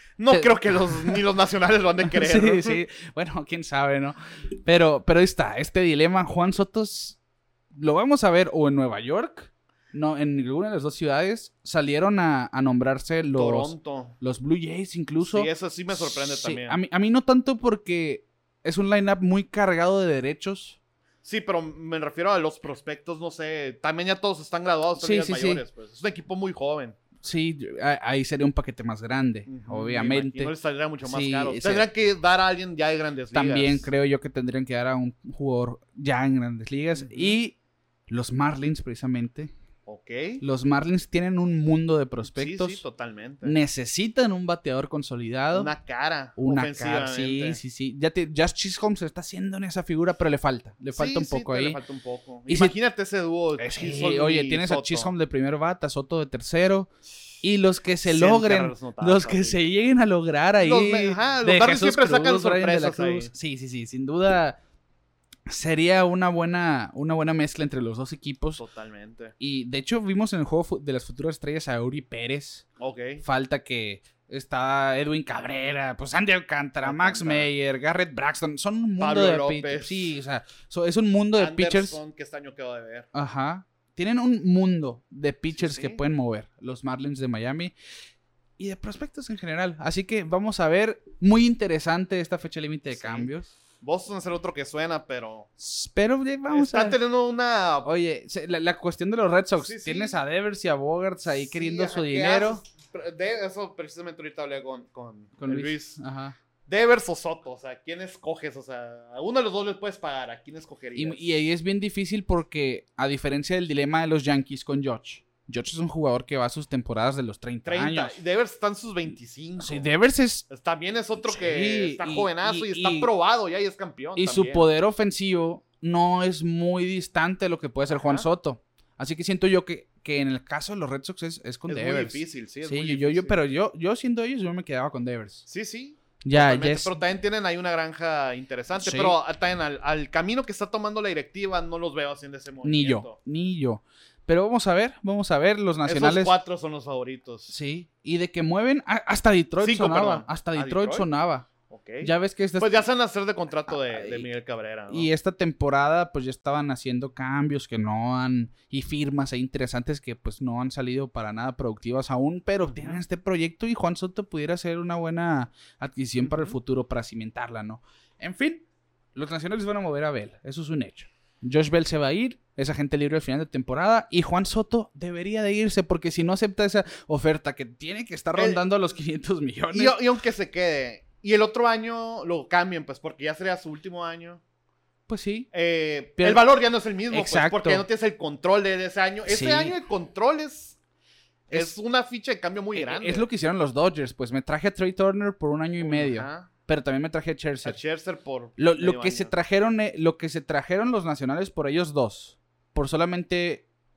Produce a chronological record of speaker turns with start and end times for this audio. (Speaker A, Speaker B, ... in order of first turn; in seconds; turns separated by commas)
Speaker A: 0.2-2.8, Speaker B: 0.3-1.2, Speaker B: 2.1-7.2, Speaker B: 7.7-20.8, Speaker A: 13.3-14.2, Speaker A: 15.2-16.8, Speaker A: 21.2-27.0, Speaker B: 25.0-25.6, Speaker B: 27.2-31.9, Speaker A: 29.5-33.9, Speaker B: 33.3-37.6, Speaker A: 37.0-37.4, Speaker B: 38.1-39.5, Speaker A: 39.9-40.4, Speaker B: 40.4-42.8, Speaker A: 42.3-43.6, Speaker B: 43.4-45.7, Speaker A: 45.5-47.6, Speaker B: 46.4-51.8, Speaker A: 51.0-55.1, Speaker B: 52.5-52.7, Speaker B: 53.6-56.9, Speaker B: 57.4-64.6, Speaker A: 58.0-59.6, Speaker A: 60.6-63.3, Speaker B: 65.5-68.6, Speaker A: 68.6-69.3, Speaker B: 69.4-72.7, Speaker A: 72.8-73.2, Speaker B: 73.2-82.0, Speaker A: 76.8-77.5, Speaker A: 79.0-80.1, Speaker A: 81.3-83.1, Speaker B: 83.1-87.7, Speaker A: 85.5-86.0, Speaker B: 88.6-93.5, Speaker A: 92.9-93.3, Speaker A: 93.8-95.5, Speaker B: 95.6-97.0, Speaker A: 96.5-97.9, Speaker B: 97.8-102.6, Speaker A: 99.6-100.2, Speaker A: 101.3-106.0, Speaker B: 105.4-106.3, Speaker A: 106.7-111.3, Speaker B: 111.0-118.2, Speaker A: 117.7-119.9, Speaker B: 119.6-120.5, Speaker A: 120.5-124.7, Speaker B: 121.2-123.1, Speaker B: 124.2-135.5, Speaker A: 127.9-128.3, Speaker A: 131.7-133.4, Speaker A: 135.5-143.2, Speaker B: 136.2-137.0, Speaker B: 138.8-139.2, Speaker B: 142.6-146.3, Speaker A: 145.8-147.5, Speaker B: 147.5-151.5, Speaker A: 149.6-151.1, Speaker A: 151.7-155.1, Speaker B: 152.0-152.8, Speaker B: 153.7-154.3, Speaker B: 154.9-180.0, Speaker A: 162.7-163.0, Speaker A: 166.2-166.6, Speaker A: 178.3-178.6, Speaker A: 179.7-184.4, Speaker B: 185.1-185.5, Speaker A: 185.5-190.8, Speaker B: 186.2-186.4, Speaker B: 187.1-187.9, Speaker B: 189.3-189.8, Speaker A: 191.5-193.3, Speaker B: 192.7-197.8, Speaker A: 195.8-196.5, Speaker A: 197.6-199.3, Speaker B: 198.6-203.7